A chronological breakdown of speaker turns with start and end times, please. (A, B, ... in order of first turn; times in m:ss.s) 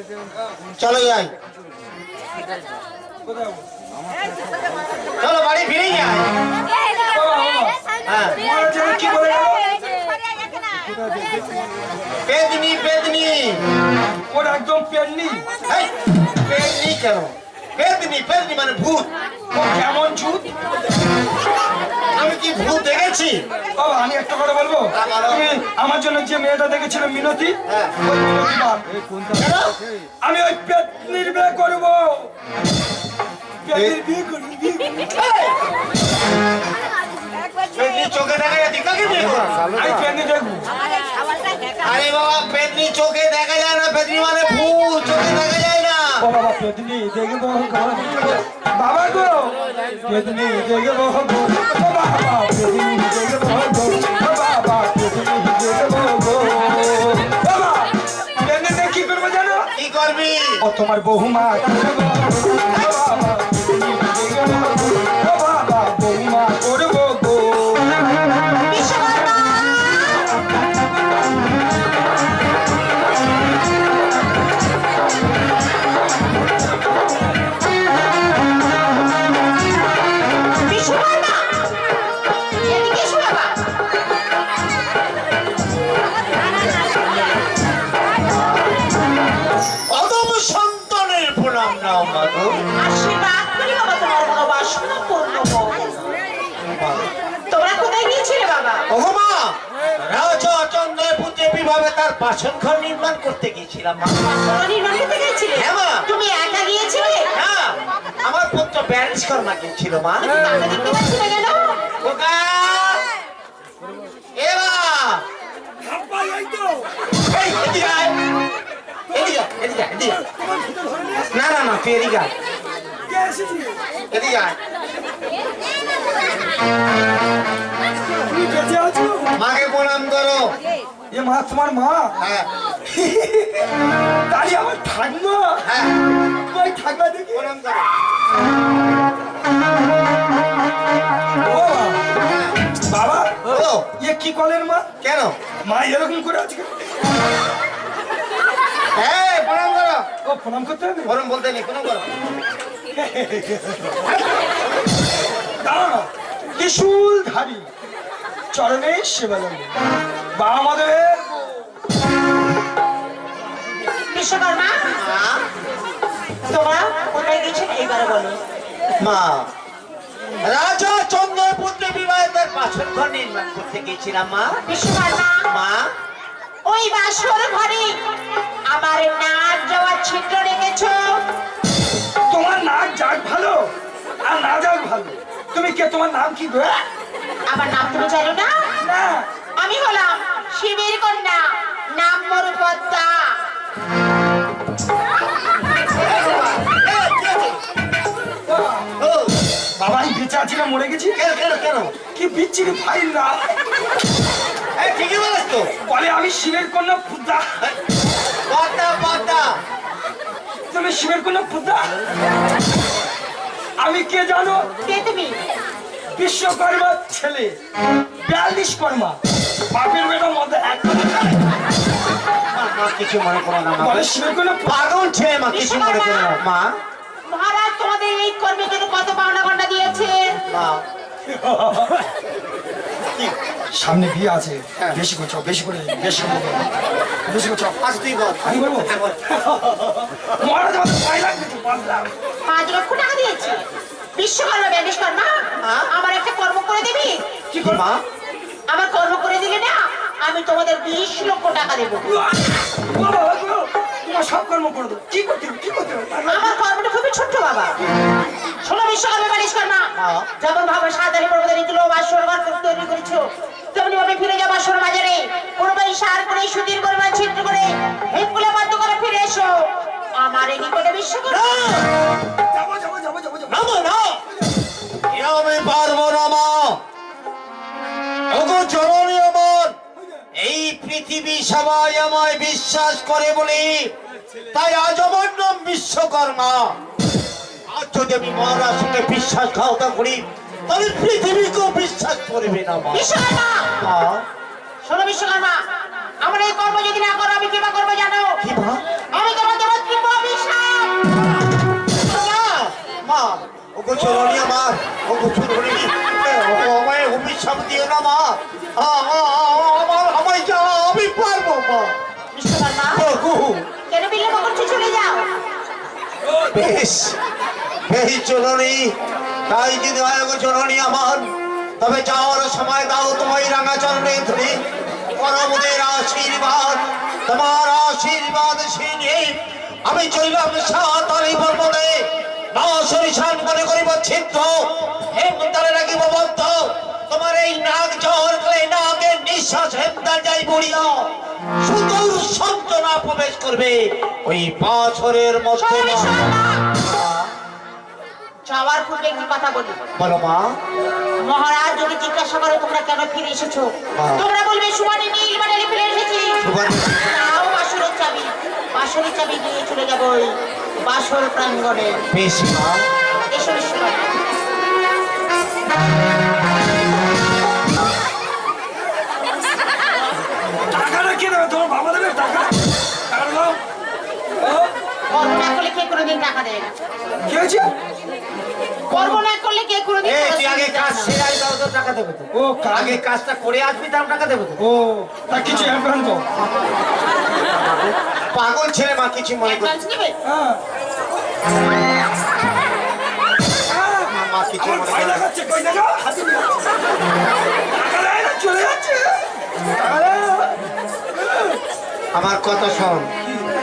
0:00.8-0:01.3 A
0:03.2-0:03.7 B
0:05.2-0:06.4 A
0:07.1-0:07.8 B
0:08.1-0:08.4 A
0:08.4-0:09.7 B
0:12.3-0:13.6 A
0:14.3-0:15.5 B
0:15.7-0:19.1 A
0:19.5-0:20.5 B
0:22.2-0:23.4 A
0:23.8-0:29.2 B
0:24.9-0:25.4 A
0:27.7-0:28.0 A
0:29.4-0:29.8 A
0:30.2-0:32.3 B
0:33.6-0:35.1 B
0:35.2-0:35.6 A
0:37.8-0:40.0 A
0:39.7-0:40.7 B
0:41.8-0:46.2 A
0:46.2-0:59.7 B
0:59.8-1:00.6 A
1:00.6-1:08.4 B
1:08.7-1:09.4 C
1:20.6-1:21.6 C
1:22.6-1:23.6 C
1:29.9-1:32.6 A
1:32.8-1:36.0 C
1:36.7-1:37.1 A
1:37.5-1:38.8 C
1:38.9-1:44.3 A
1:44.2-1:47.3 C
1:45.6-1:46.1 A
1:47.3-1:50.3 A
1:50.3-1:51.8 C
1:52.0-1:53.0 A
1:54.4-1:55.2 A
1:55.8-1:57.0 B
1:57.2-1:58.2 A
1:59.1-2:00.2 A
2:00.3-2:01.2 B
2:01.3-2:02.3 A
2:03.1-2:03.8 B
2:04.1-2:04.6 A
2:08.2-2:09.3 B
2:09.4-2:10.5 A
2:11.1-2:12.2 B
2:12.2-2:12.5 A
2:12.9-2:13.7 B
2:14.3-2:15.6 B
2:15.6-2:16.0 A
2:16.5-2:17.5 B
2:17.3-2:17.9 A
2:21.4-2:22.2 B
2:22.3-2:22.5 A
2:22.8-2:24.9 B
2:23.5-2:23.9 A
2:25.0-2:25.4 A
2:25.6-2:26.8 B
2:29.0-2:30.0 A
2:30.2-2:31.2 B
2:31.1-2:32.1 A
2:32.9-2:34.0 B
2:35.6-2:37.7 B
2:38.5-2:39.7 B
2:40.4-2:41.4 B
2:44.1-2:44.9 C
2:45.0-2:45.5 A
2:46.5-2:48.4 C
2:49.0-2:49.5 A
2:50.4-2:54.6 A
2:54.7-2:55.5 C
2:55.5-2:55.9 A
2:56.6-2:58.0 C
2:58.7-3:01.2 C
3:02.3-3:06.9 B
3:07.5-3:08.7 C
3:08.8-3:09.3 B
3:09.6-3:13.4 C
3:16.0-3:17.6 A
3:18.5-3:18.9 B
3:19.0-3:19.4 A
3:19.8-3:21.2 B
3:21.2-3:22.0 A
3:22.0-3:23.6 B
3:24.8-3:25.7 A
3:25.8-3:27.5 B
3:28.5-3:29.6 A
3:30.7-3:32.0 B
3:33.8-3:34.7 B
3:34.8-3:35.4 C
3:36.2-3:37.6 B
3:38.2-3:39.2 B
3:39.7-3:41.5 B
3:42.5-3:46.8 A
3:43.8-3:44.8 B
3:45.5-3:46.4 C
3:47.3-3:50.4 C
3:50.5-3:50.8 A
3:51.3-3:52.1 B
3:53.7-3:56.7 B
3:57.3-3:57.8 B
3:57.8-3:59.2 A
3:58.4-4:02.1 B
4:02.5-4:03.6 C
4:04.2-4:07.2 C
4:05.6-4:05.9 A
4:07.5-4:07.8 B
4:07.6-4:08.0 A
4:08.7-4:12.1 C
4:12.0-4:16.6 B
4:16.3-4:17.8 C
4:18.6-4:31.5 C
4:20.0-4:20.3 A
4:31.3-4:31.9 A
4:32.4-4:33.7 B
4:33.5-4:34.2 A
4:35.1-4:36.8 A
4:38.3-4:39.8 A
4:40.4-4:43.9 A
4:44.5-4:46.8 A
4:47.7-4:53.2 A
4:52.9-4:53.7 C
4:53.8-4:54.2 A
4:54.8-4:55.6 C
4:56.2-4:58.4 C
4:58.4-4:58.8 A
4:59.1-5:01.1 C
5:01.9-5:12.0 A
5:12.3-5:13.0 C
5:13.0-5:13.7 A
5:13.9-5:15.3 C
5:16.5-5:17.2 A
5:17.9-5:19.0 A
5:19.5-5:24.6 A
5:25.1-5:46.2 A
5:45.6-5:46.7 C
5:46.8-5:47.3 A
5:48.5-5:49.8 C
5:50.0-5:50.6 A
5:51.2-6:02.0 C
5:54.0-5:54.3 A
5:56.4-5:57.1 A
6:02.1-6:02.9 A
6:03.3-6:04.1 C
6:10.7-6:13.6 B
6:14.4-6:14.7 B
6:15.1-6:16.7 C
6:17.2-6:17.7 B
6:18.9-6:21.2 C
6:18.9-6:19.2 B
6:20.0-6:24.6 A
6:22.3-6:23.0 B
6:24.6-6:26.3 B
6:25.3-6:25.8 A
6:27.3-6:29.8 A
6:29.5-6:30.2 C
6:30.2-6:30.6 B
6:33.7-6:40.7 B
6:34.1-6:35.3 A
6:41.2-6:41.6 B
6:42.1-6:43.1 A